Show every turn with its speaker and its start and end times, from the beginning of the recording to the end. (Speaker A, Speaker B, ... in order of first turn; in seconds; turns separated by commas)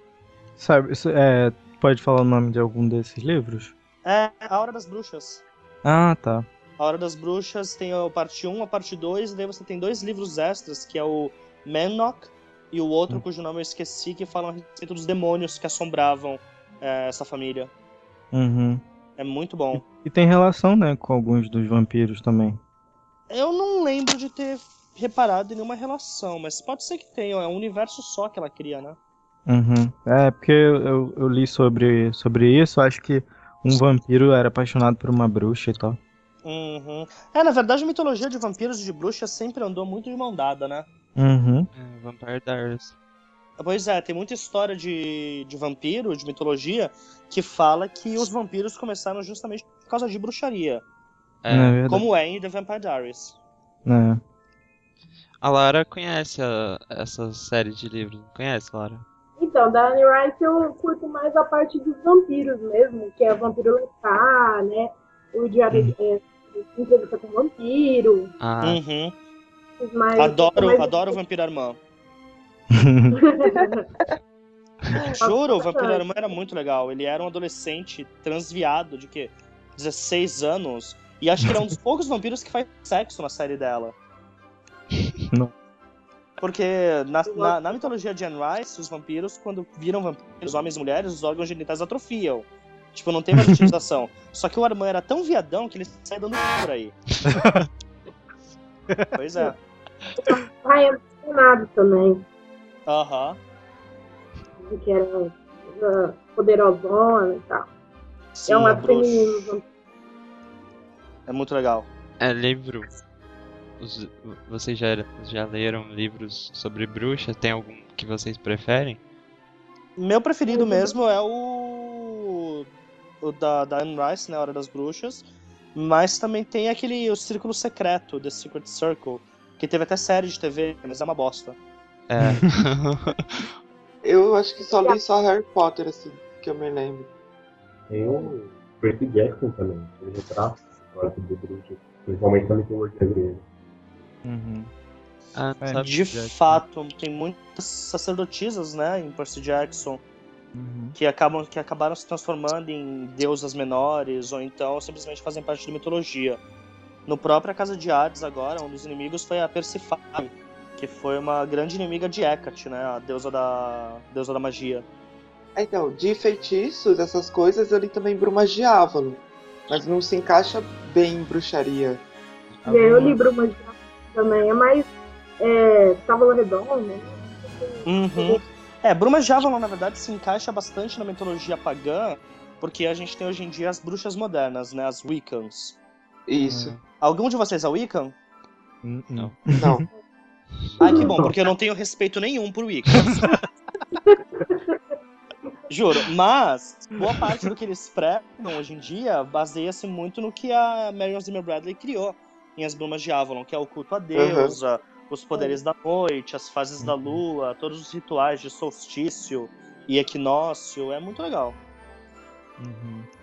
Speaker A: 0.6-3.7, Speaker B: 4.0-5.4, Speaker A: 5.8-6.5, Speaker B: 6.8-17.7, Speaker A: 18.3-18.8, Speaker B: 19.2-19.8, Speaker A: 19.7-22.6, Speaker B: 23.3-29.0, Speaker A: 29.5-36.0, Speaker B: 36.4-40.9, Speaker A: 41.1-41.7, Speaker C: 41.7-42.9, Speaker B: 43.6-50.8, Speaker C: 51.4-51.8, Speaker A: 51.5-52.0, Speaker B: 51.9-53.4, Speaker A: 53.8-54.2, Speaker C: 55.4-59.0, Speaker D: 59.4-68.3, Speaker C: 68.4-68.8, Speaker B: 68.6-69.2, Speaker D: 69.8-71.2, Speaker B: 70.2-71.8, Speaker A: 72.7-73.1, Speaker D: 73.1-73.8, Speaker E: 73.5-74.1, Speaker E: 74.9-75.2, Speaker D: 75.2-76.1, Speaker B: 75.2-83.9, Speaker B: 86.4-97.0, Speaker D: 87.3-87.9, Speaker A: 93.4-93.7, Speaker A: 97.2-97.7, Speaker B: 99.1-99.5, Speaker D: 100.2-102.2, Speaker B: 102.9-103.4, Speaker D: 104.6-107.7, Speaker B: 108.3-109.4, Speaker D: 108.5-109.6, Speaker B: 111.3-111.9, Speaker C: 112.2-112.9, Speaker C: 113.8-119.0, Speaker B: 120.0-122.7, Speaker D: 120.5-121.0, Speaker B: 123.2-131.6, Speaker C: 132.1-133.5, Speaker E: 134.0-137.1, Speaker D: 134.6-135.0, Speaker F: 137.9-143.4, Speaker A: 144.2-144.7, Speaker C: 145.3-146.3, Speaker A: 145.6-145.9, Speaker B: 145.8-150.0, Speaker A: 150.5-150.9, Speaker B: 150.9-156.4, Speaker B: 157.1-164.8, Speaker E: 165.6-172.0, Speaker A: 172.6-173.2, Speaker D: 172.6-174.9, Speaker D: 175.4-178.4, Speaker B: 177.8-185.8, Speaker E: 186.3-186.8, Speaker A: 186.4-186.7, Speaker B: 187.0-188.1, Speaker A: 188.8-189.8, Speaker E: 189.5-189.8, Speaker F: 190.8-191.2, Speaker B: 190.8-193.2, Speaker D: 190.8-191.2, Speaker D: 194.1-194.7, Speaker B: 195.7-211.6, Speaker E: 204.1-204.6, Speaker A: 206.8-207.2, Speaker A: 212.6-213.1